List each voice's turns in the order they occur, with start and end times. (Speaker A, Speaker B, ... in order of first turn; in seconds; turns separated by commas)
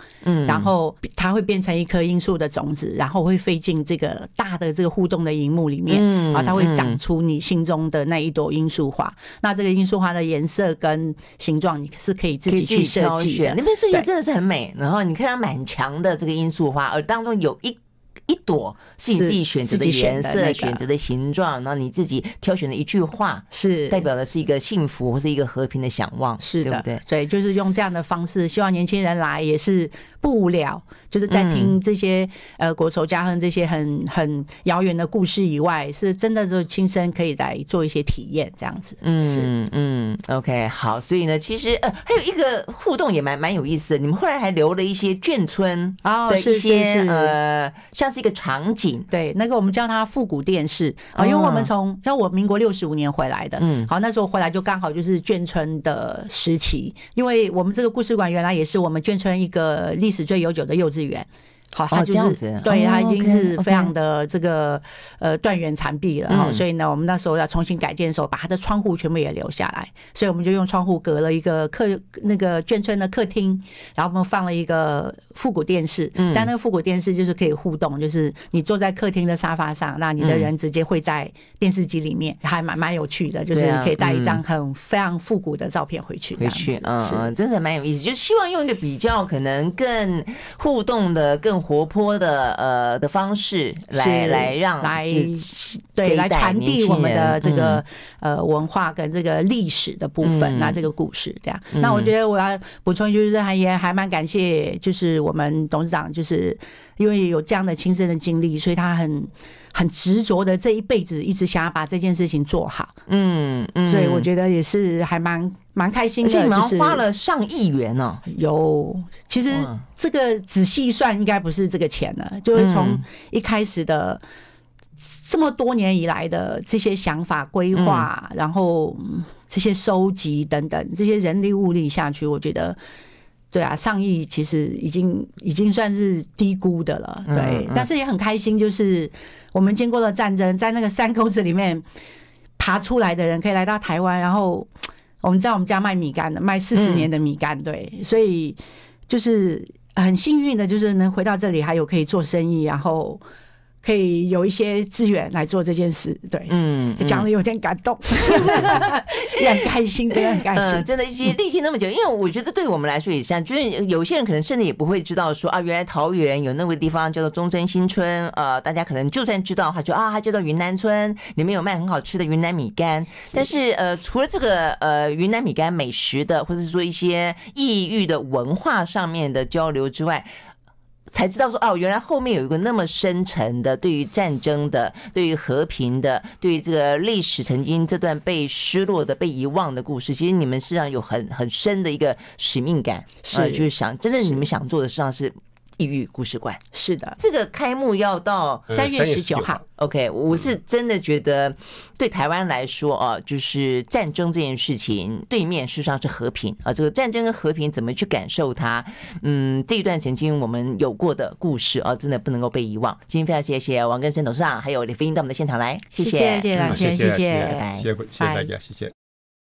Speaker A: 0.2-0.7, Speaker B: 0.5-14.1, Speaker A: 5.9-7.0, Speaker A: 12.5-27.0, Speaker B: 19.1-20.8, Speaker B: 23.5-24.0, Speaker B: 26.4-39.5, Speaker A: 31.3-31.8, Speaker A: 39.0-49.1, Speaker B: 46.0-47.4, Speaker B: 49.1-87.3, Speaker A: 51.1-51.7, Speaker A: 53.6-53.9, Speaker A: 61.9-63.9, Speaker A: 66.3-66.6, Speaker A: 76.2-76.5, Speaker A: 80.2-80.5, Speaker A: 83.5-84.4, Speaker A: 86.4-97.8, Speaker B: 93.9-112.9, Speaker A: 100.2-100.8, Speaker A: 101.7-102.1, Speaker A: 113.1-114.3, Speaker B: 113.8-117.0, Speaker A: 116.2-118.2, Speaker B: 118.3-124.2, Speaker A: 119.5-119.8, Speaker A: 122.5-123.0, Speaker B: 125.0-132.8, Speaker A: 127.7-128.1, Speaker B: 133.5-141.8, Speaker A: 137.3-137.9, Speaker B: 142.6-144.7, Speaker B: 145.2-153.2, Speaker A: 146.7-147.1, Speaker B: 153.8-160.9, Speaker A: 156.5-157.3, Speaker A: 158.1-159.4, Speaker A: 160.1-180.3, Speaker A: 181.1-196.6, Speaker B: 193.2-193.7, Speaker B: 196.7-197.2, Speaker A: 197.2-198.7, Speaker C: 198.7-199.6, Speaker B: 198.7-199.6, Speaker A: 199.8-217.8, Speaker B: 216.0-218.5, Speaker C: 216.6-218.9